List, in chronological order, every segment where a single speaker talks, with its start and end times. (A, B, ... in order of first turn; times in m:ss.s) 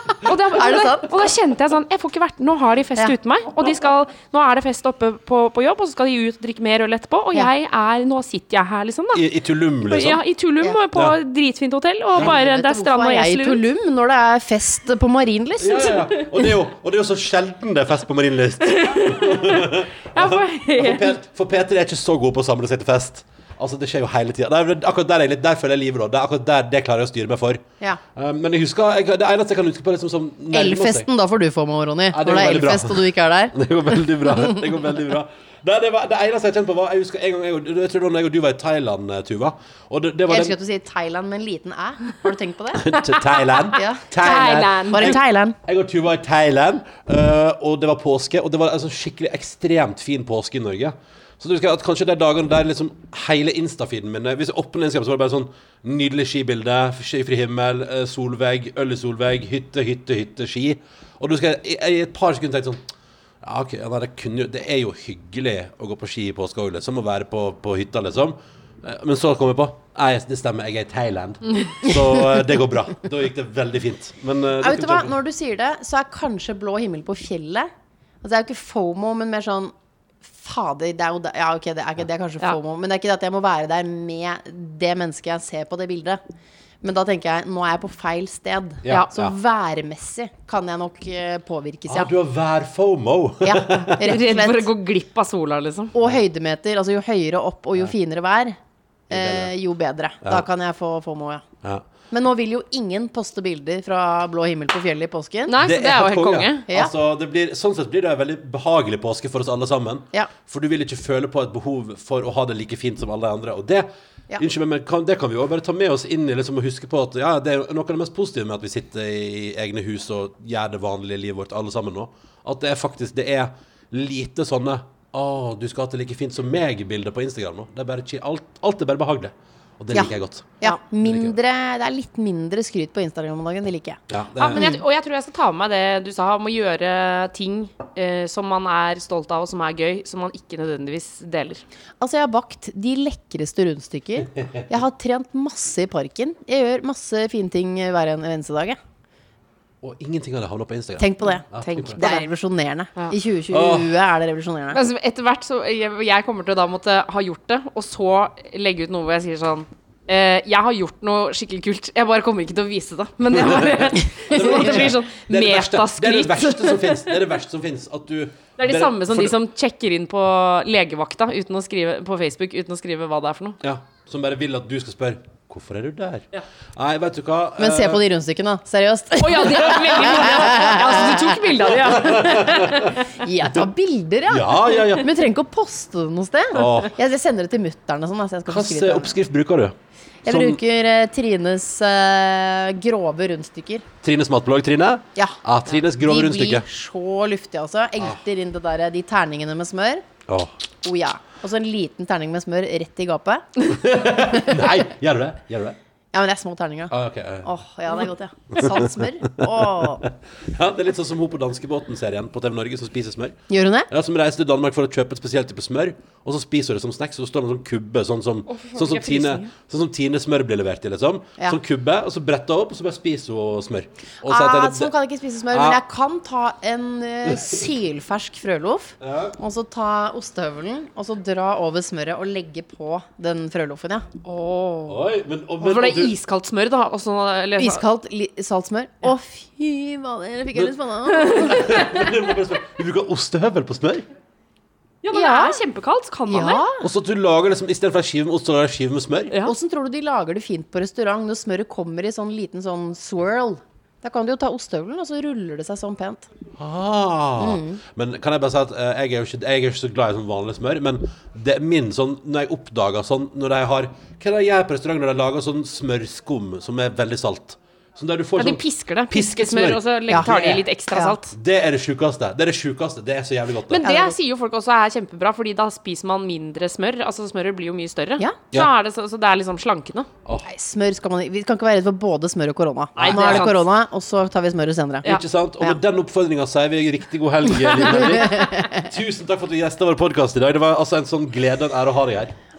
0:00.2-0:09.2 A
0:00.4-0:01.2 B
0:09.1-0:10.2 C
0:09.8-0:13.6 A
0:12.2-0:16.2 B
0:15.6-0:27.6 C
0:18.6-0:21.1 A
0:28.1-0:31.1 C
0:30.5-0:34.6 B
0:32.1-0:40.6 C
0:40.3-0:43.0 B
0:42.7-1:02.8 C
0:42.9-0:45.2 A
0:43.7-0:45.6 B
1:03.4-1:15.1 C
1:11.8-1:12.4 B
1:14.6-1:17.7 B
1:18.2-1:19.7 B
1:20.2-1:26.2 B
1:26.8-1:32.1 B
1:28.8-1:29.3 C
1:31.9-1:34.1 C
1:33.4-1:34.7 B
1:33.8-1:35.9 A
1:35.9-1:38.6 B
1:39.1-1:41.4 B
1:39.1-1:39.5 C
1:42.1-1:45.6 B
1:45.5-1:46.7 A
1:45.6-2:11.4 C
2:09.9-2:14.0 B
2:14.1-2:14.8 C
2:14.4-2:21.6 A
2:14.5-2:14.8 B
2:22.0-2:28.8 B
2:29.8-2:32.0 C
2:31.0-2:31.4 B
2:31.6-2:32.2 A
2:32.0-2:34.8 B
2:33.5-2:34.0 C
2:34.7-2:47.2 A
2:43.3-2:49.4 C
2:48.6-2:53.6 A
2:53.6-2:58.0 C
2:57.6-3:09.2 B
2:59.2-3:03.0 A
3:01.8-3:02.9 C
3:04.3-3:05.1 C
3:06.5-3:06.9 C
3:08.5-3:10.6 C
3:10.2-3:13.8 B
3:14.0-3:16.6 C
3:15.2-3:20.0 B
3:20.3-3:20.5 C
3:20.8-3:24.6 B
3:23.6-3:25.8 C
3:26.1-3:30.0 B
3:26.9-3:27.5 C
3:28.6-3:28.8 C
3:29.6-3:33.4 C
3:33.5-3:33.9 B
3:33.9-3:44.9 C
3:38.5-3:39.5 A
3:44.2-3:54.1 B
3:45.5-3:45.8 C
3:47.2-3:47.7 C
3:49.0-3:49.4 C
3:54.2-3:55.0 A
3:54.9-3:56.1 C
3:55.6-3:57.8 A
3:57.6-4:02.0 B
4:01.2-4:02.0 A
4:01.3-4:04.0 C
4:05.0-4:06.6 A
4:05.1-4:05.6 B
4:06.3-4:06.8 B
4:06.8-4:09.4 C
4:09.4-4:16.3 B
4:16.6-4:30.5 C
4:17.4-4:17.8 B
4:28.4-4:31.3 A
4:30.1-4:31.2 B
4:31.3-4:33.8 C
4:33.7-4:40.1 A
4:33.8-4:34.2 B
4:40.4-4:45.1 B
4:43.0-4:43.7 A
4:43.0-4:43.5 C
4:45.0-4:52.3 C
4:47.5-4:48.9 B